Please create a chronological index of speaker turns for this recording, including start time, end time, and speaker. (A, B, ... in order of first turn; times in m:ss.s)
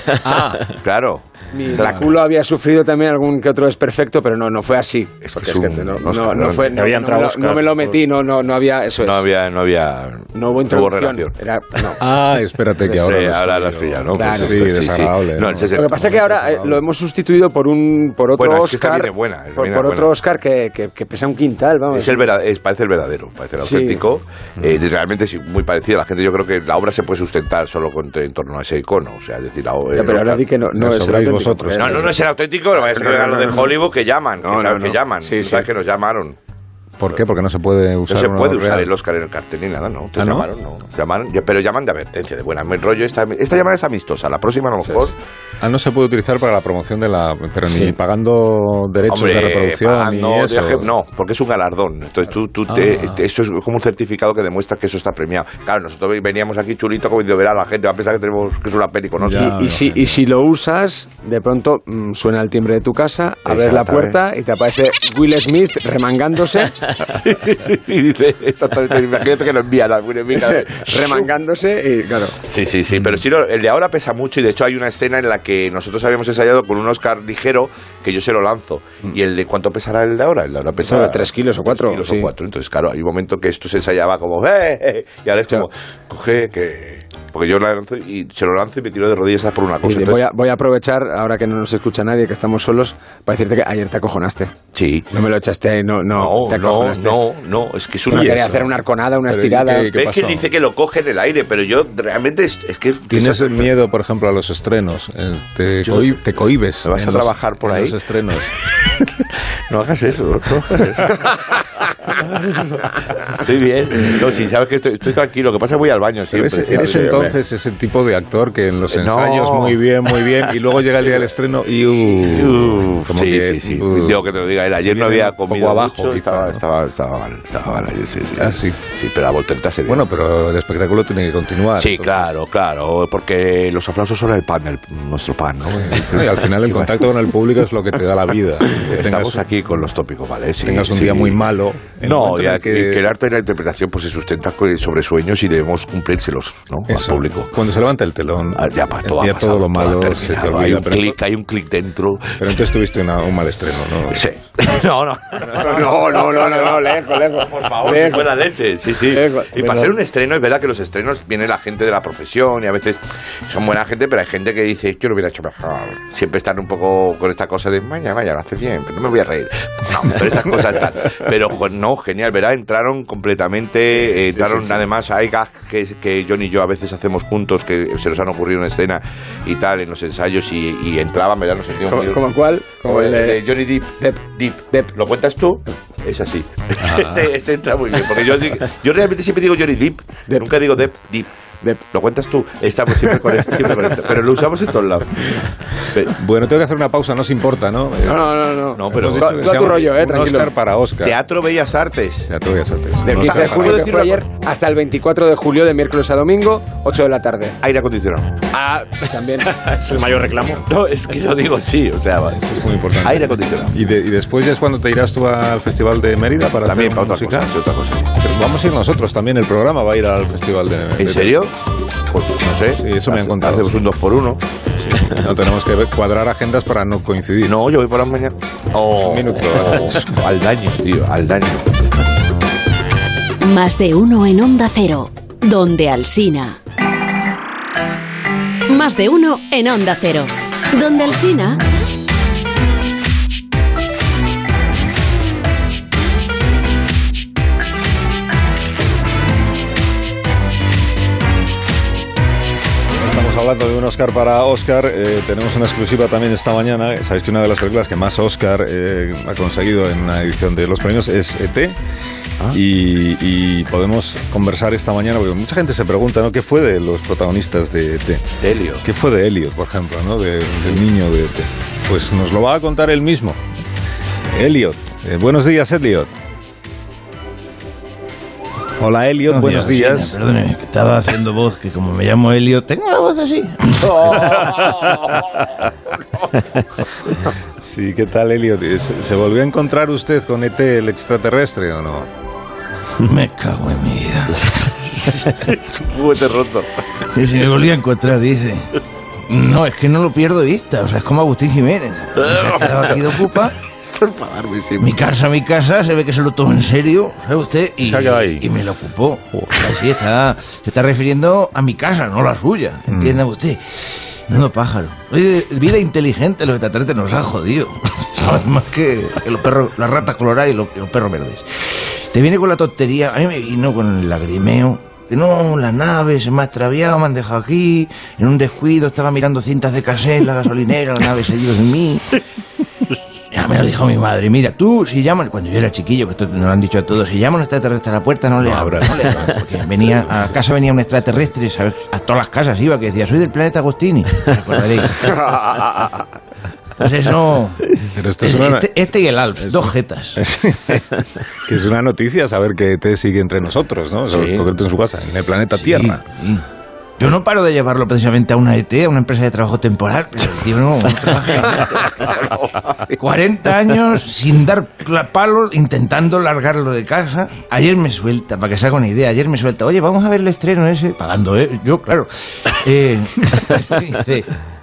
0:00.2-0:00.7 A
0:00.7-0:02.1 B
0:01.5-0:09.2 C
0:01.8-0:02.1 A
0:05.2-0:06.8 B
0:06.7-0:08.0 D
0:09.0-0:11.3 B
0:10.3-0:12.0 C
0:12.0-0:16.8 A
0:12.9-0:16.1 B
0:14.1-0:14.6 C
0:15.7-0:22.3 C
0:18.3-0:20.1 B
0:21.9-0:30.4 B
0:23.6-0:24.0 C
0:29.9-0:32.2 C
0:30.7-0:32.1 A
0:31.8-0:36.4 B
0:32.7-0:33.7 C
0:34.4-0:35.7 C
0:37.0-0:38.9 A
0:38.1-0:45.1 B
0:40.2-0:40.5 A
0:45.6-0:50.9 A
0:49.1-0:59.5 B
0:52.7-0:53.2 A
0:59.2-1:00.2 A
0:59.3-1:06.8 C
1:03.4-1:04.2 B
1:06.9-1:11.3 B
1:10.4-1:12.4 C
1:12.4-1:30.2 B
1:20.8-1:22.3 C
1:29.8-1:34.5 C
1:34.7-1:35.1 B
1:35.1-1:37.2 C
1:36.1-1:38.6 B
1:38.1-1:38.7 A
1:38.1-1:39.9 C
1:39.3-1:40.5 A
1:39.9-1:43.8 B
1:43.1-1:48.5 A
1:45.8-1:46.1 B
1:46.8-1:48.0 B
1:49.7-1:57.3 B
1:56.3-2:04.2 A
1:58.9-1:59.8 B
2:02.1-2:10.0 B
2:04.8-2:06.6 A
2:08.4-2:08.8 A
2:09.9-2:12.4 A
2:11.8-2:17.1 B
2:15.7-2:19.4 A
2:18.7-2:21.4 B
2:20.6-2:23.0 A
2:22.0-2:27.6 B
2:26.9-2:31.2 A
2:28.5-2:32.6 B
2:32.4-2:34.3 A
2:34.1-3:02.3 B
2:35.5-2:38.4 C
2:39.0-2:39.9 C
2:54.3-2:54.8 C
3:01.9-3:03.4 C
3:02.8-3:11.3 B
3:06.8-3:07.3 A
3:11.9-3:16.2 B
3:16.1-3:21.2 A
3:18.0-3:20.5 C
3:18.7-3:19.9 B
3:21.0-3:22.3 B
3:22.3-3:23.9 A
3:23.0-3:27.6 C
3:23.0-3:24.2 B
3:27.6-3:28.4 B
3:28.5-3:29.6 C
3:29.6-3:30.6 D
3:30.7-3:33.8 B
3:32.3-3:37.5 A
3:36.5-3:38.2 B
3:38.2-3:41.4 A
3:41.0-3:41.5 B
3:42.1-3:44.4 B
3:42.7-3:43.8 A
3:45.0-3:47.6 A
3:47.4-3:51.7 B
3:48.9-3:50.1 A
3:53.4-3:56.6 E
3:58.7-4:01.6 E
4:12.9-4:21.8 A
4:22.5-4:28.2 A
4:28.4-4:28.8 B
4:28.8-4:33.4 A
4:34.3-4:36.1 A
4:38.8-4:40.2 A
4:39.3-4:44.5 F
4:43.8-4:45.2 B
4:47.6-4:52.1 A
4:53.0-4:54.5 F
4:54.5-4:56.8 B
4:57.1-4:58.7 F
4:59.3-5:03.6 F
5:02.3-5:05.0 B
5:04.8-5:32.2 F
5:07.8-5:08.5 A
5:12.9-5:13.2 A
5:33.3-5:45.2 F
5:38.4-5:39.3 A
5:38.6-5:39.2 B
5:40.0-5:40.3 A
5:45.0-5:46.1 C
5:46.8-5:47.7 F
5:47.8-5:48.8 A
5:48.2-5:50.2 F
5:49.4-5:56.0 A
5:54.1-5:54.5 B
5:55.6-5:56.4 F
5:57.0-6:01.8 F
6:02.0-6:02.7 B
6:02.9-6:14.3 F